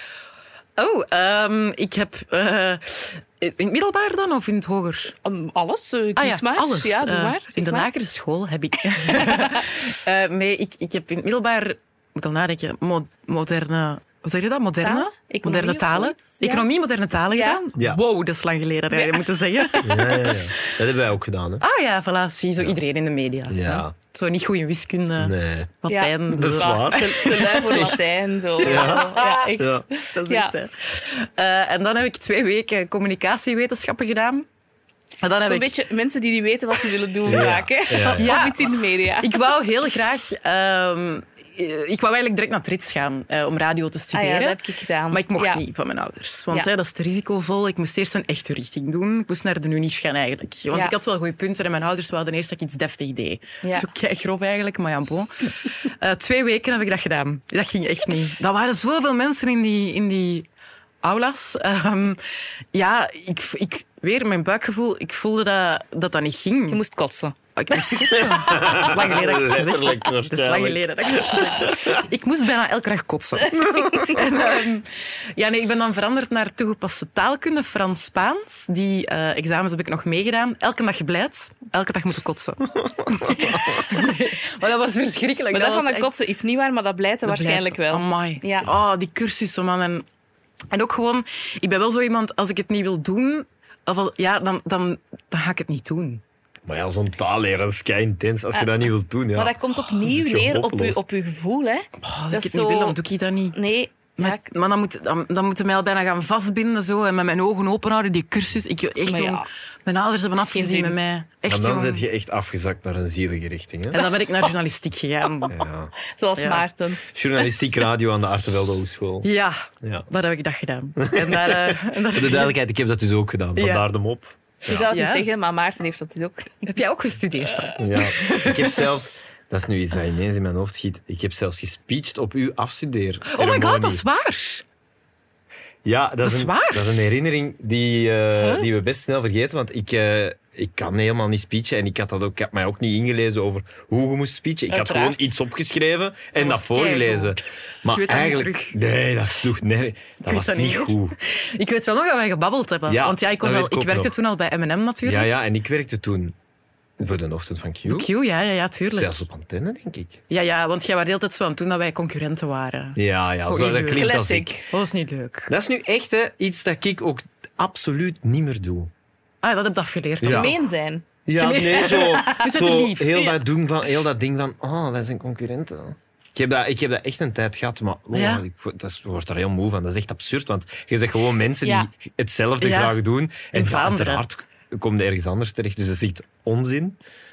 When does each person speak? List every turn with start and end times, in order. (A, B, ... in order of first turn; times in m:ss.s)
0:00.8-0:05.1 A
0:05.2-0:07.9 B
0:06.2-0:20.6 A
0:09.1-0:09.7 B
0:14.8-0:16.7 B
0:17.3-0:17.6 B
0:18.9-0:19.8 B
0:19.8-0:21.6 C
0:21.6-0:28.0 A
0:23.5-0:23.9 C
0:25.2-0:25.7 C
0:25.9-0:30.5 B
0:26.3-0:28.0 C
0:28.6-0:34.5 A
0:28.6-0:29.8 C
0:35.2-0:35.7 A
0:35.4-0:39.4 B
0:37.2-0:38.4 C
0:38.2-1:00.5 A
0:44.1-0:45.6 B
1:01.0-1:02.2 A
1:02.7-1:06.8 A
1:06.7-1:07.4 B
1:07.6-1:26.1 A
1:08.1-1:12.0 C
1:13.5-1:14.3 C
1:13.6-1:14.1 B
1:23.1-1:23.8 C
1:25.5-1:28.7 B
1:27.2-1:30.0 A
1:30.7-1:36.2 A
1:36.7-1:41.0 C
1:38.5-1:43.0 B
1:42.0-1:43.6 A
1:43.5-1:44.4 B
1:44.2-1:52.1 A
1:49.1-1:49.5 B
1:50.5-1:51.0 B
1:51.5-1:54.1 C
1:53.9-1:55.6 A
1:55.5-1:55.9 C
1:56.1-1:57.1 B
1:56.4-1:56.6 A
1:57.1-1:59.3 C
1:59.2-2:02.6 A
1:59.8-2:00.1 C
2:01.0-2:04.9 C
2:03.6-2:03.9 A
2:04.7-2:06.7 B
2:04.9-2:05.3 A
2:06.7-2:08.9 A
2:07.5-2:07.8 B
2:07.8-2:14.0 C
2:13.3-2:14.6 A
2:15.8-2:31.2 C
2:16.2-2:17.0 A
2:18.4-2:18.7 B
2:24.7-2:25.3 B
2:26.4-2:28.8 A
2:30.2-2:35.4 A
2:32.9-2:34.1 C
2:35.0-2:36.4 C
2:37.0-2:38.1 C
2:37.9-2:39.3 A
2:38.9-2:40.2 C
2:40.3-2:44.1 A
2:43.0-2:44.6 C
2:43.9-2:44.7 B
2:44.7-2:45.5 A
2:45.5-2:48.9 C
2:49.4-2:50.6 A
2:50.2-2:50.5 C
2:50.2-2:51.1 B
2:51.3-3:07.0 C
2:51.4-2:53.3 A
2:51.7-2:52.4 B
2:58.1-2:58.4 A
3:01.6-3:01.9 B
3:02.6-3:03.0 A
3:03.5-3:04.2 A